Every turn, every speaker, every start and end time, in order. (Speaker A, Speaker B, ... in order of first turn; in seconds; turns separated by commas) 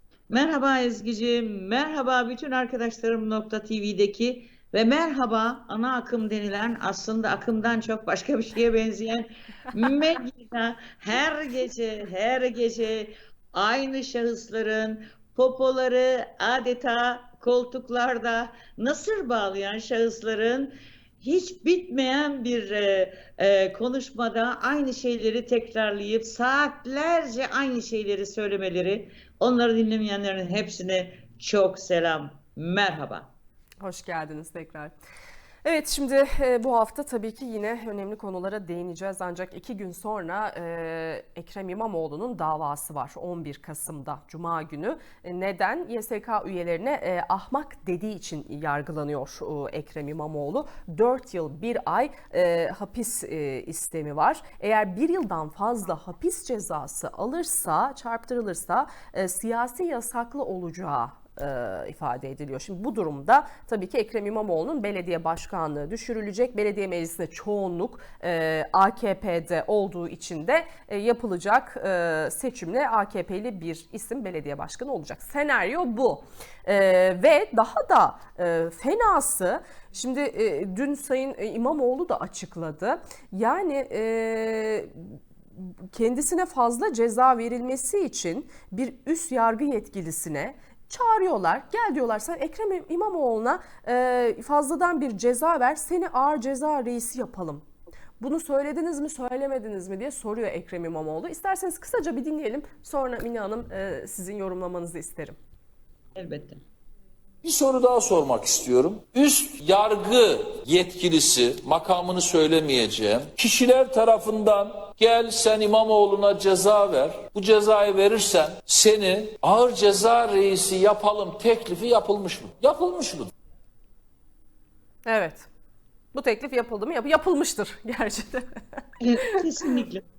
Speaker A: 0.3-33.3, Speaker B: 33.8-34.9, Speaker B: 35.6-97.7, Speaker B: 98.2-105.4, Speaker A: 106.2-106.6, Speaker C: 107.4-123.3, Speaker B: 125.0-125.5, Speaker B: 126.1-128.8, Speaker A: 129.0-130.0